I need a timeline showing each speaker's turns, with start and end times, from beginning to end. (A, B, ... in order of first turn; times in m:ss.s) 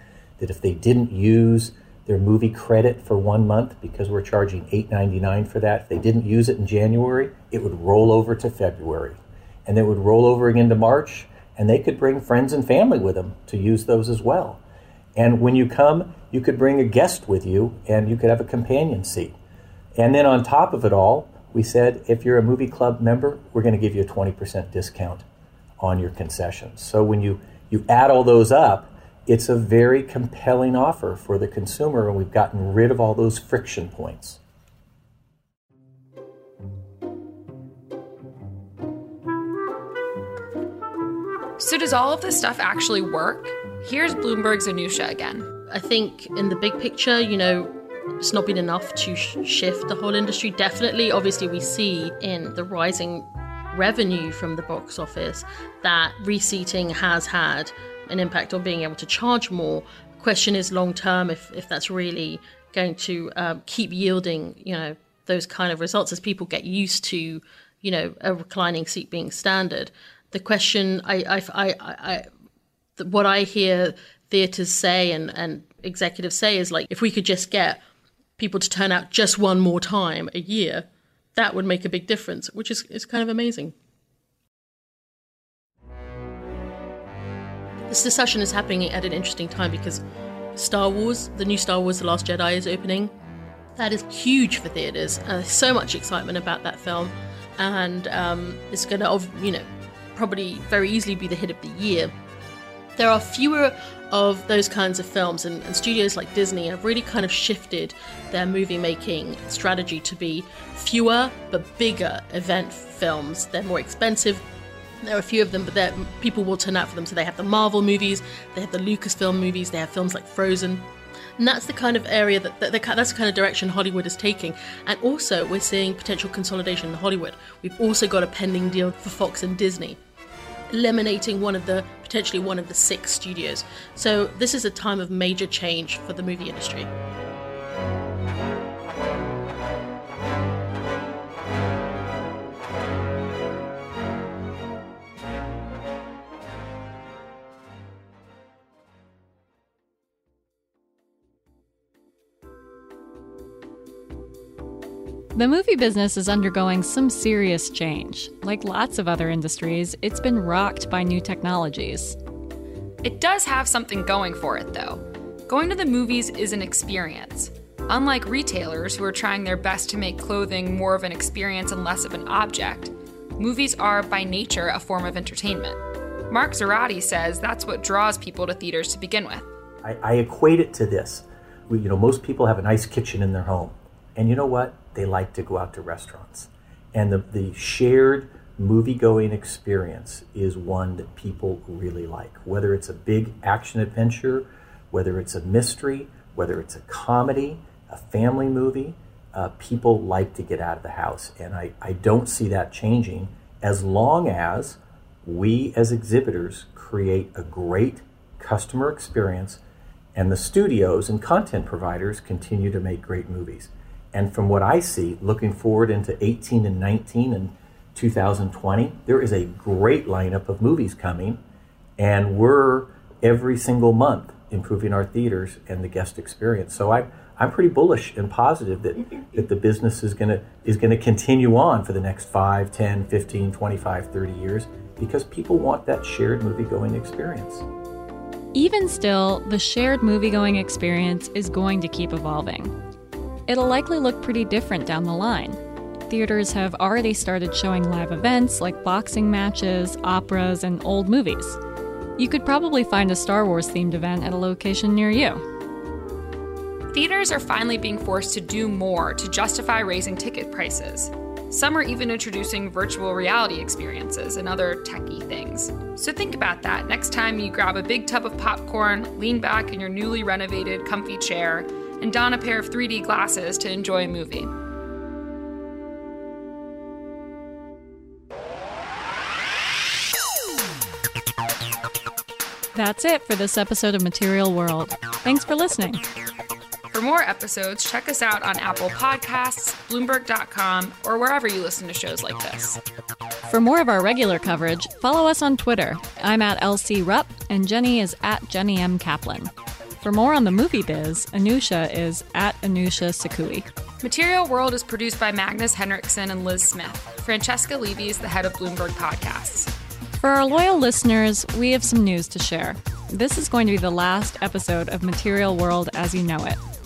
0:00.4-0:14.6 A
0:15.2-0:19.3 A
0:20.0-0:25.2 A
0:25.8-0:34.4 A
0:41.6-0:45.5 B
0:45.7-1:12.2 C
1:13.0-1:17.8 C
1:18.4-1:20.8 C
1:21.4-1:23.7 C
1:27.9-1:30.0 C
1:30.5-1:33.1 C
1:33.8-1:39.6 C
1:40.1-1:42.1 C
1:43.0-1:54.4 C
1:55.0-2:10.0 C
2:10.7-2:16.9 C
2:35.3-2:42.2 D
2:43.0-2:55.8 B
2:56.3-2:59.5 B
2:59.8-3:29.6 A
3:30.1-3:41.4 A
3:42.0-3:57.6 A
3:58.5-4:02.7 D
4:03.5-4:11.6 D
4:12.2-4:15.4 D
4:16.9-4:34.5 B
4:42.7-4:46.0 D
4:46.9-4:52.8 B
4:53.4-5:03.7 D
5:04.0-5:09.7 B
5:10.2-5:16.6 D